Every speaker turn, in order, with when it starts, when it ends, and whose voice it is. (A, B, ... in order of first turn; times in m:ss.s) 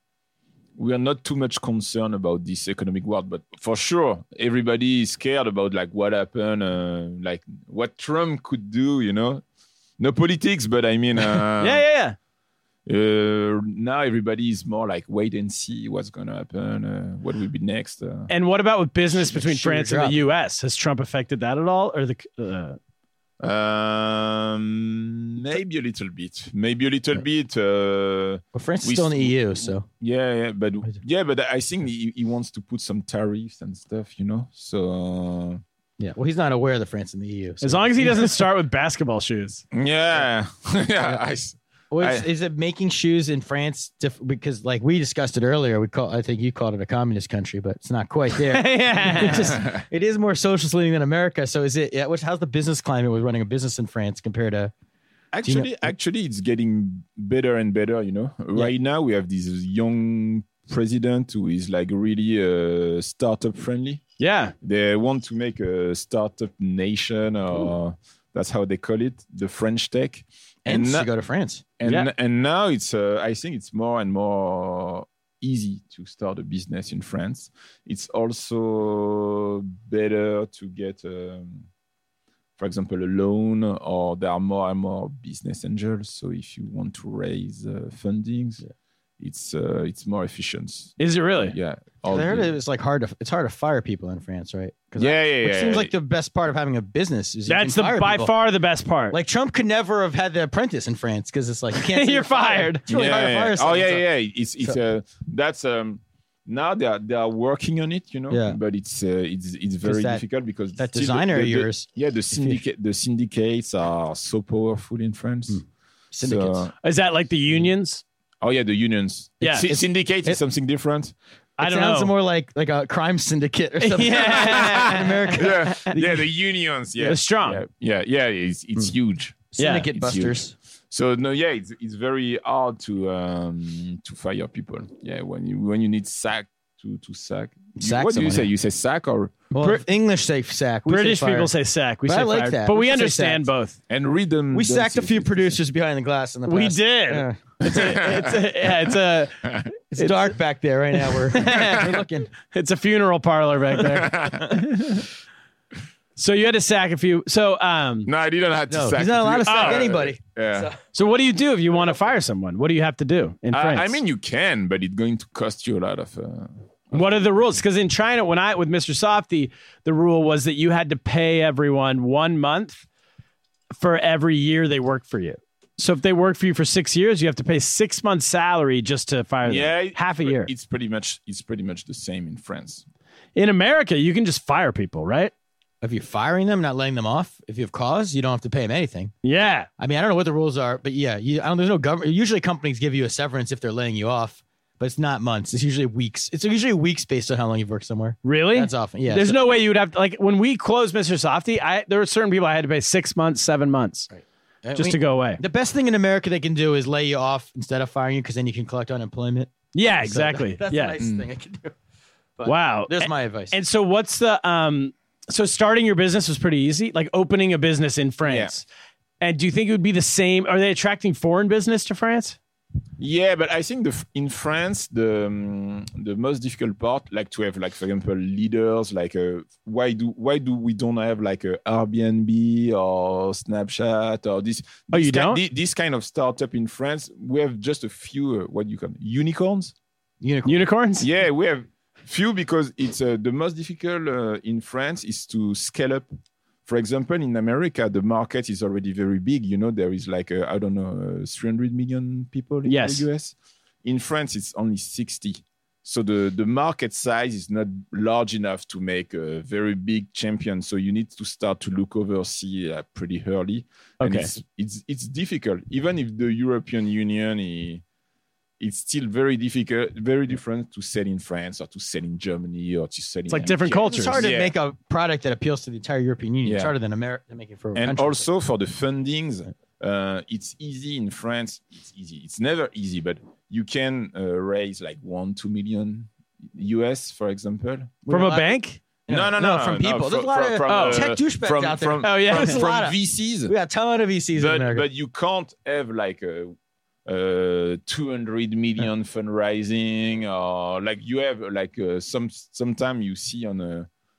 0:00.8-0:09.4 A
0:10.0-0:11.8 A
0:11.6-0:12.2 B
0:12.9-0:18.3 A
0:18.3-0:22.8 B
0:19.2-0:20.2 C
0:23.4-0:35.6 A
0:28.6-0:29.9 C
0:36.0-0:38.4 C
0:37.6-0:39.6 B
0:39.7-0:42.3 A
0:41.9-0:54.7 C
0:48.5-0:49.6 B
0:49.4-0:49.8 A
0:55.3-1:04.0 A
0:55.4-0:55.7 C
1:04.2-1:04.5 B
1:04.6-1:11.1 A
1:10.6-1:11.6 C
1:11.8-1:21.7 A
1:22.6-1:28.6 A
1:29.2-1:32.5 A
1:31.0-1:31.6 B
1:32.1-1:38.4 C
1:35.0-1:35.9 A
1:37.5-1:39.2 B
1:39.1-1:44.1 C
1:41.8-1:42.9 B
1:42.9-1:55.6 A
1:48.3-1:48.6 C
1:49.8-1:50.2 C
1:50.8-1:52.6 C
1:56.1-1:56.7 C
1:56.2-1:56.7 A
1:56.8-1:58.0 B
1:58.4-2:01.1 A
1:59.4-1:59.7 B
1:59.6-2:00.4 C
2:01.6-2:02.1 B
2:01.6-2:06.2 C
2:03.8-2:06.0 B
2:04.2-2:19.6 A
2:07.0-2:07.6 B
2:09.5-2:10.5 C
2:09.6-2:09.9 B
2:17.8-2:18.5 C
2:19.5-2:21.5 C
2:20.9-2:23.8 B
2:22.0-2:23.5 C
2:23.9-2:25.6 A
2:24.5-2:27.4 C
2:26.5-2:30.3 B
2:27.6-2:28.5 A
2:29.9-2:32.3 C
2:31.3-2:31.9 B
2:32.4-2:35.0 B
2:33.8-2:35.0 A
2:36.2-2:38.1 B
2:38.1-2:40.7 A
2:38.7-2:40.8 C
2:39.5-2:39.9 B
2:40.9-2:44.0 B
2:43.5-2:47.3 A
2:46.9-2:52.8 B
2:53.8-3:00.5 B
2:59.4-3:02.8 A
3:03.4-3:05.3 B
3:05.8-3:09.2 C
3:09.2-3:09.7 B
3:09.8-3:19.4 C
3:18.2-3:24.1 B
3:24.1-3:31.7 C
3:24.8-3:25.4 B
3:29.7-3:31.0 B
3:31.0-3:31.3 A
3:32.4-3:33.6 C
3:32.4-3:38.6 B
3:38.3-3:38.6 A
3:39.2-3:42.4 B
3:43.0-3:59.7 A
3:54.9-3:55.4 B
4:00.2-4:00.7 C
4:00.5-4:01.1 B
4:01.0-4:06.1 A
4:06.7-4:27.8 A
4:12.7-4:13.1 B
4:24.0-4:24.3 B
4:28.6-4:34.6 A
4:33.3-4:34.2 B
4:33.5-4:38.3 C
4:36.4-4:36.7 A
4:37.8-4:48.0 A
4:48.1-4:54.9 C
4:48.1-4:48.8 B
4:49.1-4:53.5 A
4:50.7-4:51.1 B
4:52.0-4:52.6 B
4:54.4-4:56.6 A
4:57.1-5:03.9 A